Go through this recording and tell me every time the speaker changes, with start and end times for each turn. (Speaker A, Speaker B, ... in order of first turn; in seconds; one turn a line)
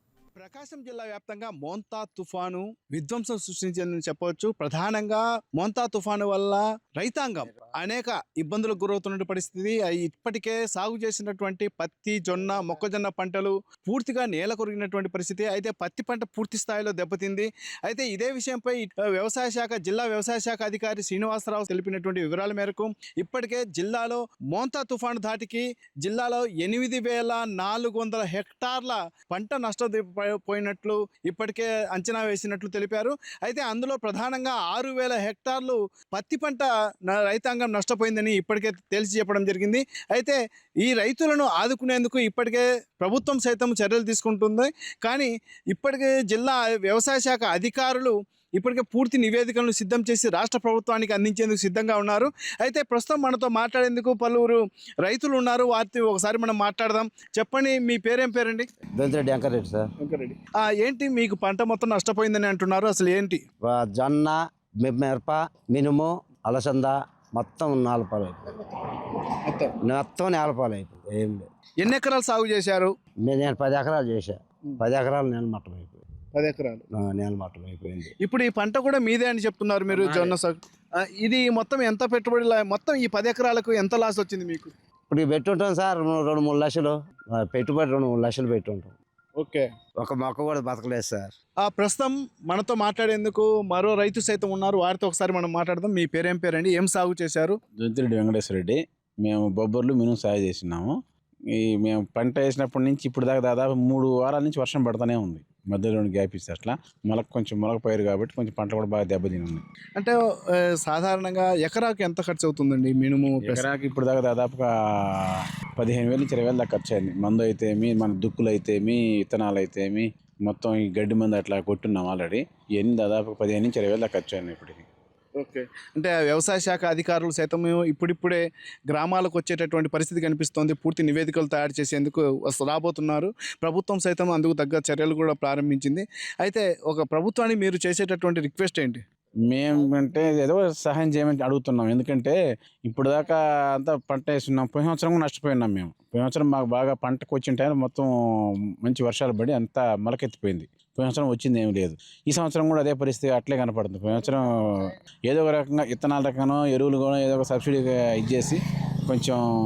Speaker A: 0.3-58.7
Speaker B: 7.4-7.7
Speaker B: 12.3-12.8
Speaker B: 59.0-59.9
Speaker A: 60.0-63.4
Speaker B: 63.6-68.8
Speaker A: 69.4-69.7
Speaker B: 69.8-71.5
Speaker A: 71.8-72.9
Speaker B: 73.2-76.0
Speaker A: 76.3-76.8
Speaker B: 76.9-78.1
Speaker A: 78.2-84.7
Speaker B: 79.9-80.3
Speaker B: 85.1-89.0
Speaker A: 89.4-89.7
Speaker B: 90.0-91.3
Speaker A: 91.6-97.6
Speaker C: 97.8-100.9
Speaker C: 101.5-109.6
Speaker A: 110.8-113.7
Speaker C: 113.4-124.8
Speaker A: 125.4-139.0
Speaker C: 139.5-142.3
Speaker C: 142.9-148.1
Speaker C: 148.8-159.4